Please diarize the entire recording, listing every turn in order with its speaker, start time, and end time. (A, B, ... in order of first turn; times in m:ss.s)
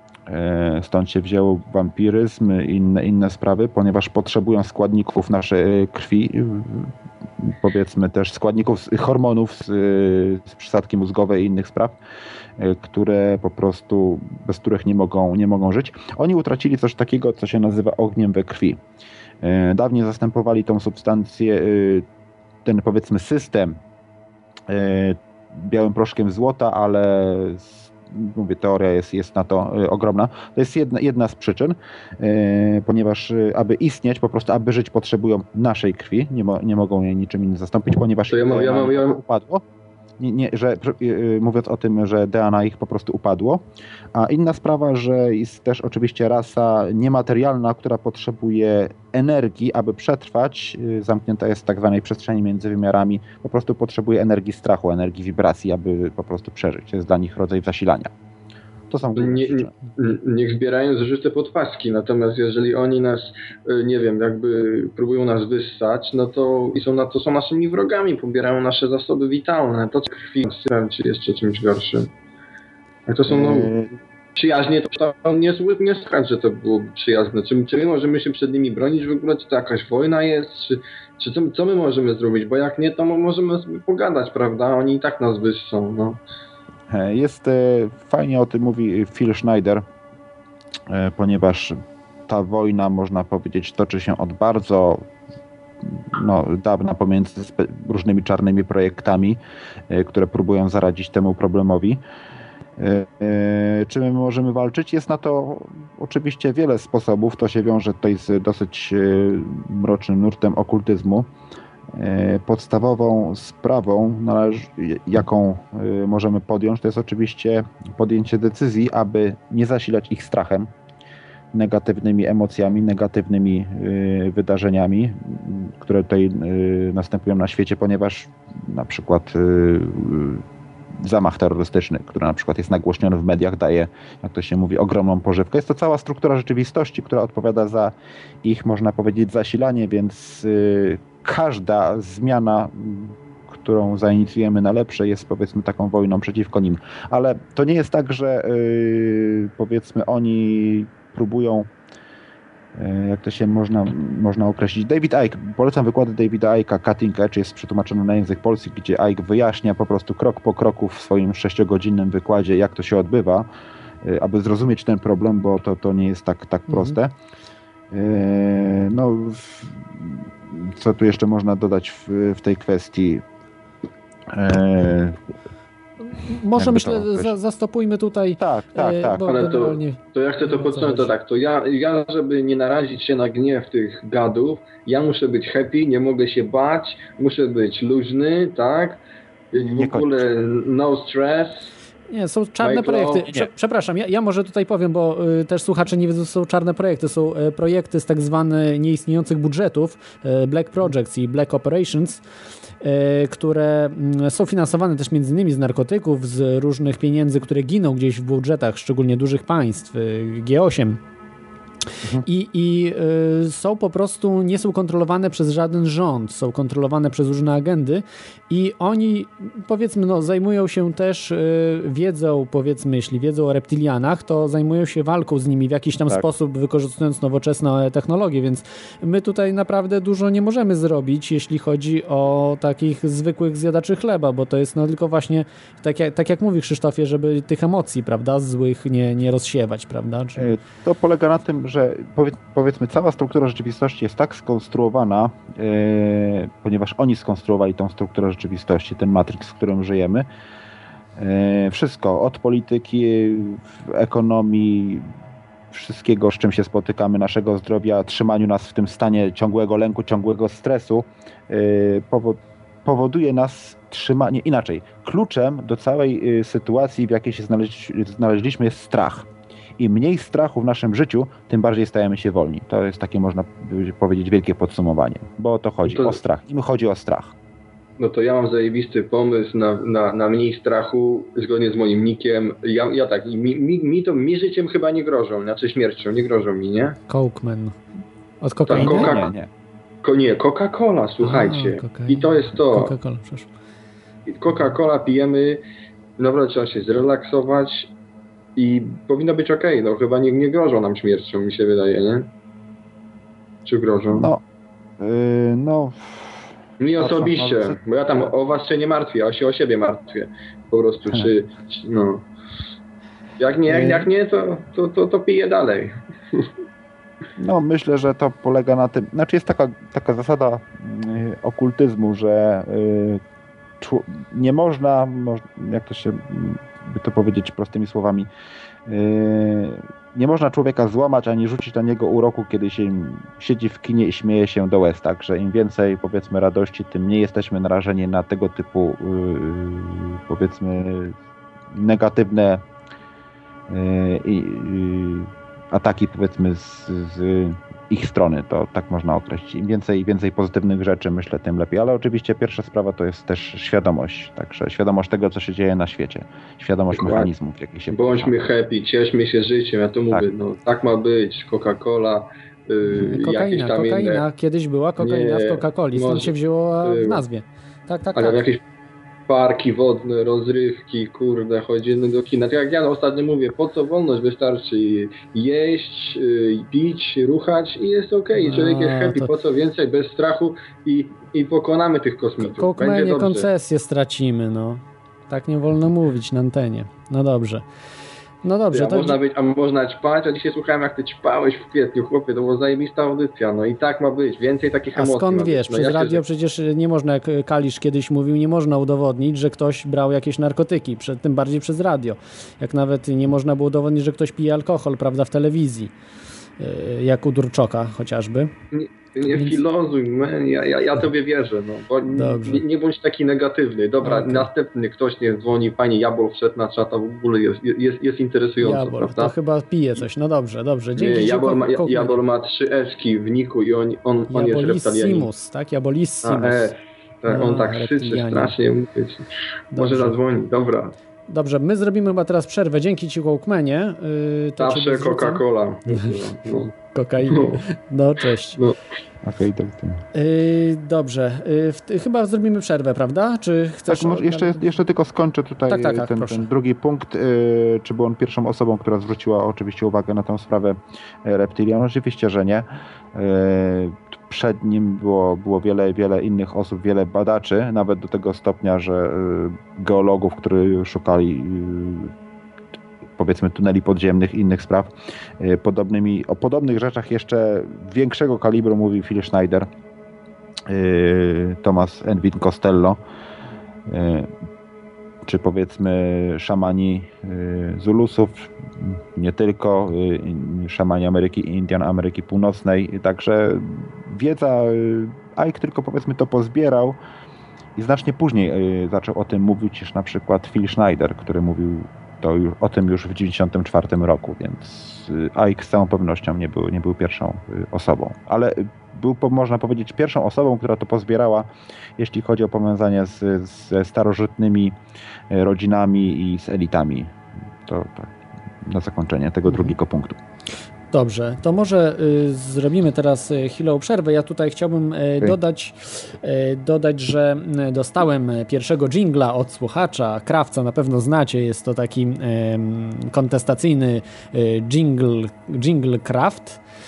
0:00.3-0:12.0 A
0:12.6-0:18.8 A
0:19.4-0:22.0 A
0:22.6-0:23.8 A
0:24.7-0:39.6 A
0:38.3-0:39.2 B
0:40.2-0:58.1 A
0:58.9-0:59.7 A
0:59.2-1:12.1 B
1:13.1-1:13.7 B
1:13.3-1:13.9 A
1:14.4-1:26.2 B
1:26.9-1:29.9 A
1:30.9-1:35.1 A
1:35.8-1:42.0 A
1:42.8-1:51.3 A
1:51.9-2:00.7 A
2:01.5-2:10.4 A
2:11.0-2:31.7 A
2:32.8-2:43.5 A
2:44.0-2:47.2 A
2:46.7-2:47.0 C
2:47.9-2:53.2 A
2:54.3-2:55.2 A
2:56.1-3:01.2 C
2:56.6-2:57.4 A
2:58.4-2:59.3 A
2:59.3-3:09.0 B
3:09.5-3:11.7 B
3:09.6-3:10.1 A
3:12.1-3:22.2 C
3:12.6-3:13.3 B
3:22.8-3:31.0 C
3:32.2-4:00.5 C
4:00.4-4:10.3 A
4:11.2-4:15.1 A
4:15.7-4:37.4 A
4:35.8-4:36.2 B
4:38.0-4:47.0 B
4:47.1-4:47.8 C
4:48.4-4:49.2 C
4:48.7-4:49.3 B
4:48.7-4:49.5 A
4:50.0-4:52.9 B
4:51.2-4:53.5 C
4:54.3-4:55.6 B
4:56.2-4:57.9 B
4:58.6-5:02.3 B
5:03.7-5:04.3 B
5:04.1-5:04.4 A
5:05.0-5:06.4 A
5:06.8-5:12.3 B
5:07.0-5:07.8 A
5:13.4-5:16.5 B
5:13.7-5:14.1 A
5:17.4-5:23.2 A
5:23.8-5:28.3 A
5:28.9-5:41.2 A
5:41.7-5:42.6 A
5:43.7-5:58.3 A
5:56.9-5:57.3 B
5:57.9-6:04.2 B
6:02.9-6:08.4 C
6:05.0-6:07.2 B
6:08.2-6:08.6 B
6:09.3-6:23.5 B
6:18.4-6:19.3 C
6:22.4-6:27.6 C
6:28.4-6:29.2 C
6:28.7-6:36.2 B
6:35.0-6:45.9 C
6:46.6-6:48.5 C
6:48.7-6:59.3 B
6:49.3-6:49.6 C
6:52.1-6:52.6 C
6:54.0-6:54.5 C
6:58.6-7:02.2 C
7:01.0-7:05.3 B
7:04.3-7:06.8 C
7:06.2-7:10.9 B
7:07.3-7:08.5 C
7:09.7-7:10.2 C
7:11.3-7:16.2 C
7:14.6-7:16.7 B
7:16.7-7:18.6 C
7:17.3-7:17.6 B
7:19.2-7:20.0 A
7:20.2-7:24.8 C
7:23.9-7:42.1 A
7:25.7-7:26.5 C
7:43.2-7:49.7 A
7:50.7-7:53.0 A
7:53.9-7:54.3 A
7:55.2-8:07.0 A
8:07.8-8:24.8 A
8:25.3-8:30.2 A
8:30.9-8:46.6 C